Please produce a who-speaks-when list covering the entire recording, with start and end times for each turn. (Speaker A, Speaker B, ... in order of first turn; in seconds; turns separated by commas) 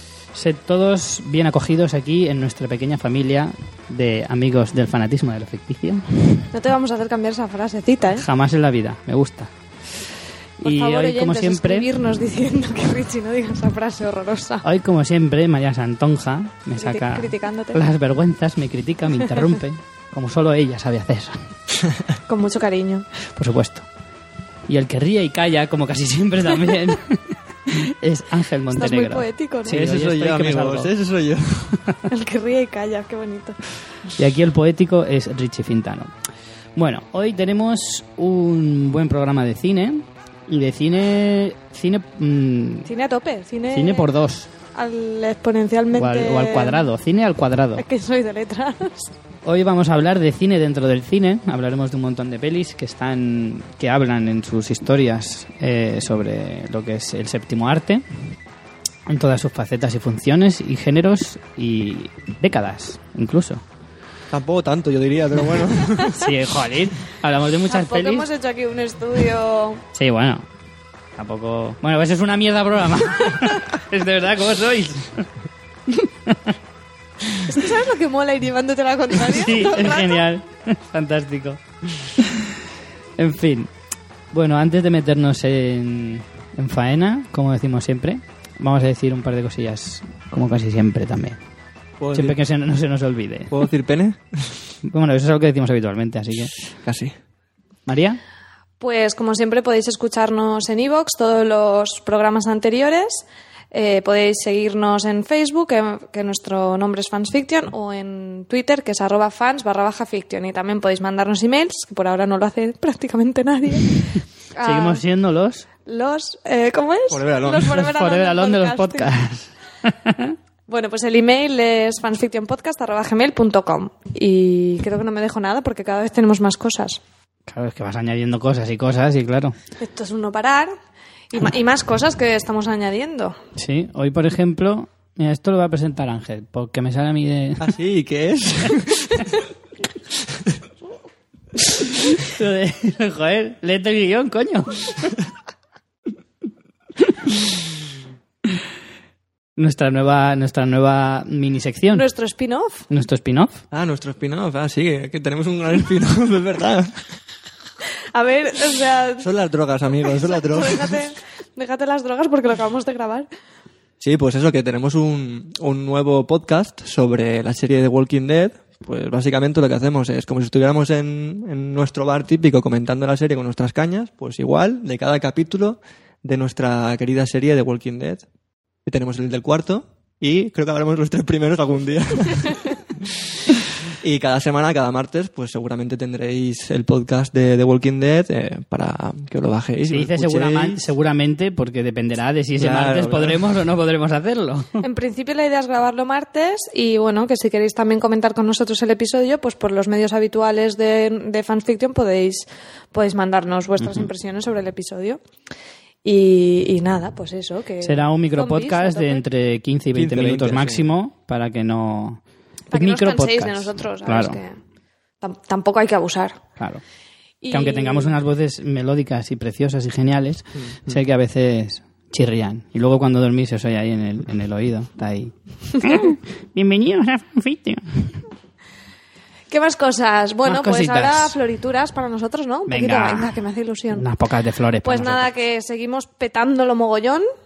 Speaker A: 0.3-6.5, Speaker B: 6.5-8.2, Speaker A: 8.2-9.5, Speaker A: 10.6-11.9, Speaker B: 10.6-14.6, Speaker A: 14.6-21.5, Speaker B: 16.8-17.8, Speaker B: 22.3-23.1, Speaker A: 23.3-23.9, Speaker A: 24.7-30.9, Speaker B: 28.7-29.8, Speaker C: 29.8-31.8, Speaker B: 32.1-33.6, Speaker A: 34.2-36.1, Speaker A: 36.8-42.9, Speaker B: 42.9-44.1, Speaker A: 43.7-44.5, Speaker B: 44.7-46.9, Speaker A: 46.0-47.8, Speaker B: 47.8-49.1, Speaker A: 49.4-58.0, Speaker A: 59.1-63.6, Speaker C: 64.3-66.2, Speaker A: 66.1-68.2, Speaker B: 67.7-69.8, Speaker A: 69.9-70.5, Speaker A: 71.2-75.3, Speaker A: 76.0-76.5, Speaker B: 77.4-80.2, Speaker A: 79.3-81.6, Speaker A: 82.2-82.6, Speaker A: 83.2-83.7, Speaker A: 84.3-91.4, Speaker C: 92.0-92.4, Speaker A: 92.1-93.6, Speaker C: 93.5-94.7, Speaker A: 94.8-96.5, Speaker C: 96.6-97.1, Speaker A: 97.9-98.2, Speaker B: 98.8-115.0, Speaker A: 114.6-115.7, Speaker B: 115.8-119.1, Speaker C: 117.1-117.8, Speaker A: 117.7-120.3, Speaker B: 120.7-127.0, Speaker A: 127.5-129.6, Speaker B: 129.8-130.7, Speaker B: 131.3-133.4, Speaker A: 133.6-137.7, Speaker C: 137.6-139.3, Speaker A: 142.0-145.2, Speaker A: 149.6-152.0, Speaker B: 151.9-152.8, Speaker A: 152.9-153.6, Speaker C: 153.7-157.2, Speaker B: 158.1-159.3, Speaker C: 159.2-161.1, Speaker B: 160.1-163.3, Speaker C: 164.0-178.2, Speaker C: 178.8-190.8, Speaker A: 189.9-194.8, Speaker C: 192.6-193.4, Speaker B: 194.8-205.2, Speaker A: 203.8-204.1, Speaker B: 206.0-209.2, Speaker A: 207.8-212.2, Speaker C: 209.9-210.8, Speaker B: 212.7-214.6, Speaker A: 212.7-214.4, Speaker B: 215.2-216.4, Speaker B: 217.4-218.2, Speaker A: 217.5-228.2, Speaker C: 220.5-221.0, Speaker B: 229.5-234.0, Speaker A: 230.4-231.3, Speaker A: 232.7-233.4, Speaker A: 234.0-235.2, Speaker B: 234.8-237.2